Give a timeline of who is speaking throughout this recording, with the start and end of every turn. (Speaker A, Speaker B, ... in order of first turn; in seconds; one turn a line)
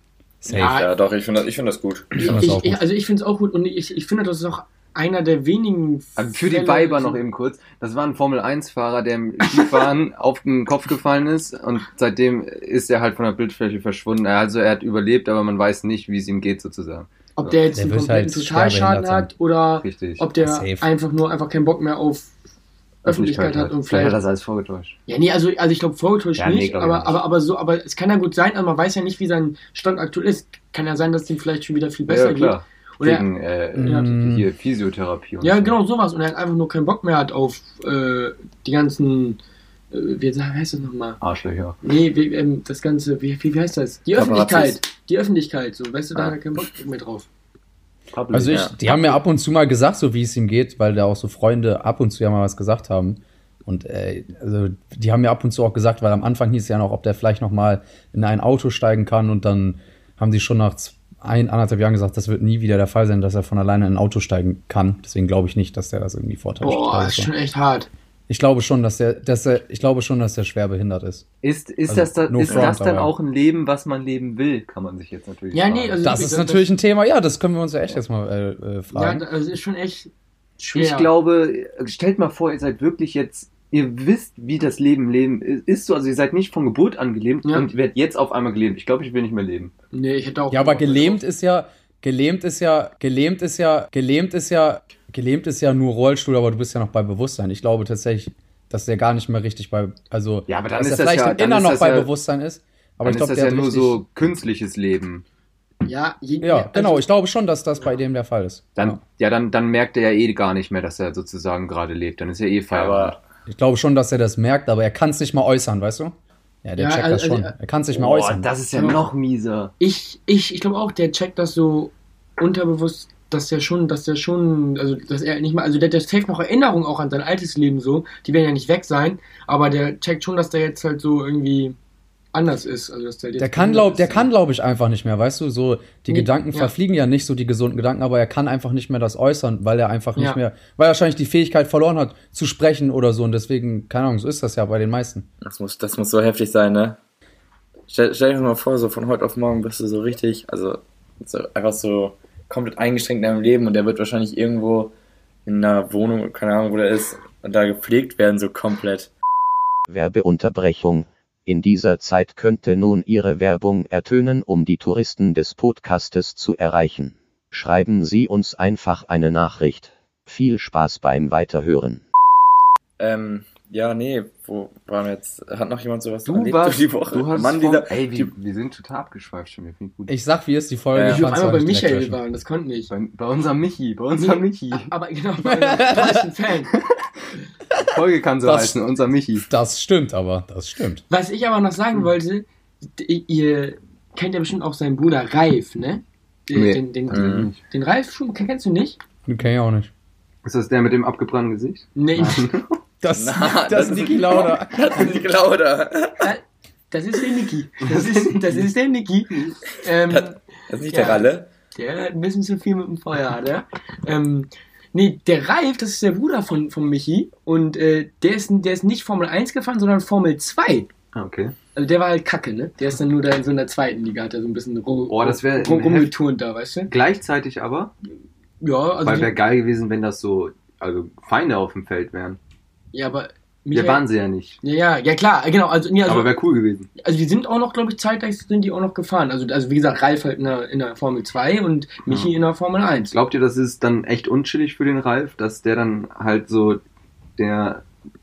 Speaker A: 0.4-0.8
Speaker B: 0.5-0.9
Speaker C: 0.5-2.4
Speaker B: 2.1-7.2
Speaker A: 2.2-2.8
Speaker D: 6.2-17.5
Speaker B: 17.4-22.3
Speaker A: 17.7-19.3
Speaker D: 19.8-20.3
Speaker A: 20.4-20.9
Speaker B: 23.0-24.2
Speaker D: 23.0-25.0
Speaker B: 25.1-33.3
Speaker D: 26.4-27.2
Speaker D: 32.1-35.7
Speaker A: 33.8-34.4
Speaker B: 33.8-34.1
Speaker B: 35.4-39.4
Speaker B: 39.9-41.2
Speaker D: 41.2-41.8
Speaker B: 41.8-47.3
Speaker C: 44.1-44.8
Speaker D: 48.1-49.2
Speaker A: 48.3-67.3
Speaker C: 48.4-48.7
Speaker B: 66.6-67.9
Speaker A: 68.3-71.2
Speaker D: 71.4-76.0
Speaker A: 71.9-73.1
Speaker C: 72.5-72.8
Speaker B: 75.5-76.7
Speaker A: 76.0-79.2
Speaker B: 78.9-80.1
Speaker D: 80.6-89.7
Speaker B: 80.6-81.1
Speaker B: 89.9-91.2
Speaker A: 90.5-104.0
Speaker D: 100.5-102.1
Speaker D: 103.0-105.2
Speaker B: 105.8-107.1
Speaker A: 106.4-109.0
Speaker D: 108.8-113.2
Speaker C: 112.7-113.2
Speaker A: 113.5-118.5
Speaker B: 116.8-117.5
Speaker D: 117.9-119.7
Speaker B: 118.7-119.0
Speaker B: 119.8-131.8
Speaker B: 132.3-134.3
Speaker A: 133.4-145.3
Speaker B: 136.1-136.7
Speaker C: 145.4-147.0
Speaker C: 147.9-154.9
Speaker C: 155.4-159.1
Speaker E: 159.9-172.0
Speaker C: 173.0-178.3
Speaker D: 176.2-180.2
Speaker A: 180.1-182.2
Speaker C: 180.9-181.3
Speaker B: 181.0-182.9
Speaker D: 182.9-184.9
Speaker B: 184.2-186.7
Speaker A: 185.4-186.2
Speaker D: 186.7-187.0
Speaker D: 187.8-189.4
Speaker A: 188.4-188.8
Speaker A: 189.5-191.0
Speaker B: 191.1-199.0
Speaker D: 196.5-197.6
Speaker C: 197.1-197.5
Speaker A: 199.3-199.9
Speaker D: 200.4-202.8
Speaker B: 201.9-202.5
Speaker A: 203.0-205.2
Speaker C: 203.1-206.3
Speaker B: 206.2-220.9
Speaker D: 207.8-208.7
Speaker C: 210.1-211.5
Speaker D: 221.1-221.5
Speaker B: 221.7-226.9
Speaker D: 225.1-226.1
Speaker D: 226.9-227.9
Speaker B: 228.6-229.4
Speaker D: 229.0-232.4
Speaker B: 232.9-234.0
Speaker D: 233.7-234.6
Speaker B: 234.6-236.3
Speaker D: 236.0-236.9
Speaker B: 237.0-243.1
Speaker D: 243.1-246.8
Speaker D: 247.4-247.8